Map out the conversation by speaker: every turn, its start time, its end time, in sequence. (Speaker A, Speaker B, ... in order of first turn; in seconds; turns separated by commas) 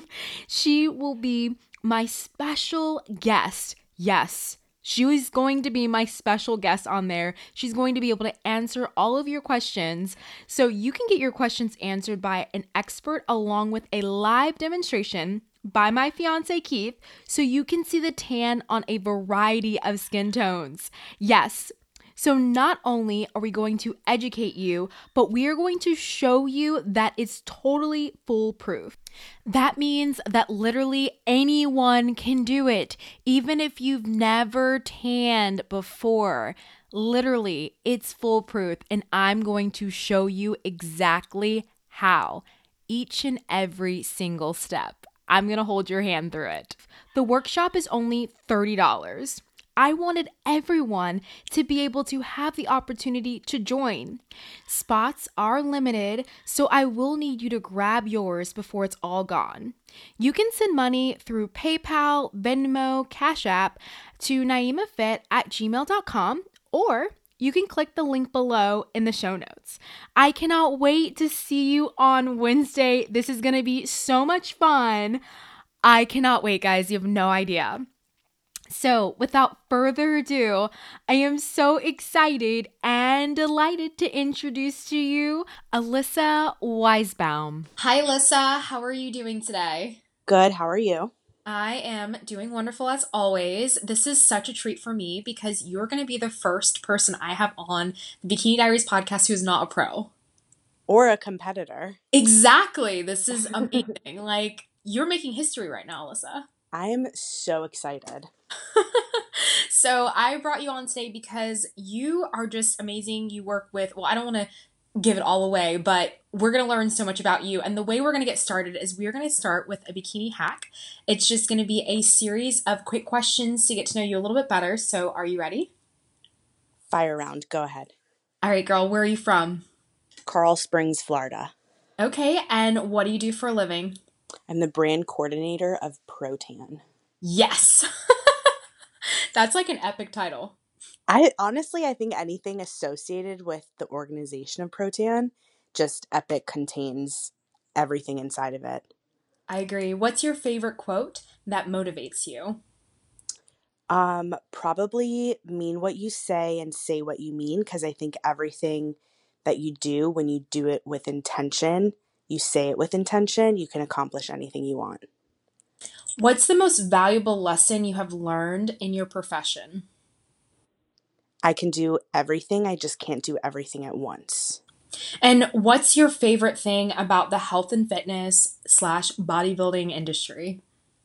Speaker A: 0.5-75.2, Speaker A: 75.8-77.8, Speaker A: 78.7-87.7, Speaker B: 87.8-90.0, Speaker C: 90.3-91.1, Speaker B: 91.5-100.1, Speaker C: 100.9-102.0, Speaker B: 102.1-106.5, Speaker C: 106.7-108.3, Speaker B: 108.8-125.7, Speaker C: 126.9-127.9, Speaker B: 128.4-129.7, Speaker C: 130.3-131.5, Speaker B: 132.0-134.0, Speaker C: 134.5-136.8, Speaker B: 137.2-138.5, Speaker B: 139.3-140.6, Speaker C: 141.1-148.9, Speaker B: 149.5-152.6, Speaker C: 153.9-165.0, Speaker B: 166.2-169.9, Speaker C: 171.4-174.6, Speaker B: 175.2-180.6